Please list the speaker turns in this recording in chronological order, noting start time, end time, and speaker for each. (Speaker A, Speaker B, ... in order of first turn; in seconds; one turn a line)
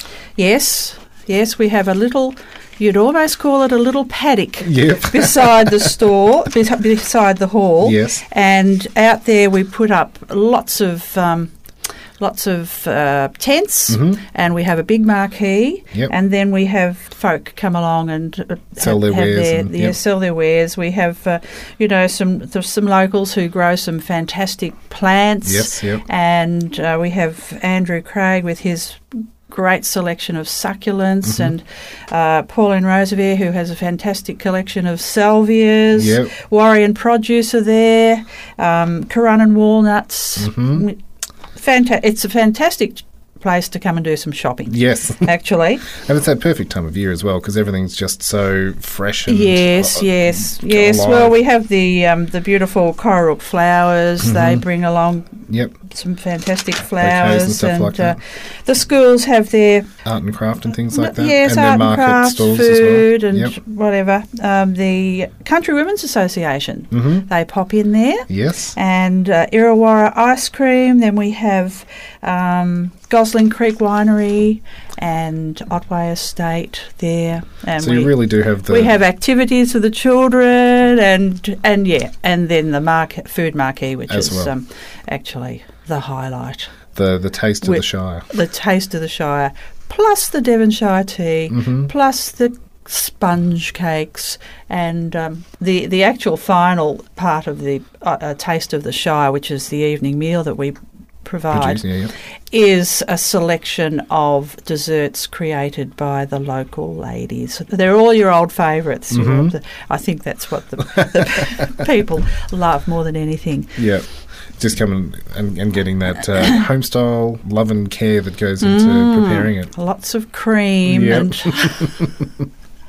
Speaker A: 0.3-11.5
Speaker B: 4.6-5.8
Speaker B: 7.8-8.2
Speaker A: 12.2-41.0
Speaker B: 13.9-14.2
Speaker B: 18.8-19.9
Speaker B: 25.4-26.0
Speaker B: 31.2-31.5
Speaker B: 36.0-36.3
Speaker B: 40.4-40.8
Speaker A: 41.5-45.9
Speaker B: 44.7-45.3
Speaker B: 45.9-51.4
Speaker A: 49.3-59.9
Speaker B: 54.2-54.6
Speaker B: 55.5-55.7
Speaker B: 57.0-58.2
Speaker B: 60.0-63.5
Speaker A: 60.9-86.7
Speaker B: 66.9-67.3
Speaker B: 68.3-68.7
Speaker B: 77.8-78.9
Speaker B: 84.1-84.5
Speaker B: 86.9-88.3
Speaker A: 87.6-101.8
Speaker B: 91.5-91.9
Speaker B: 101.5-102.1
Speaker A: 102.5-113.8
Speaker B: 109.1-109.5
Speaker B: 113.8-114.0
Speaker B: 114.6-119.7
Speaker A: 118.6-122.0
Speaker B: 120.8-122.2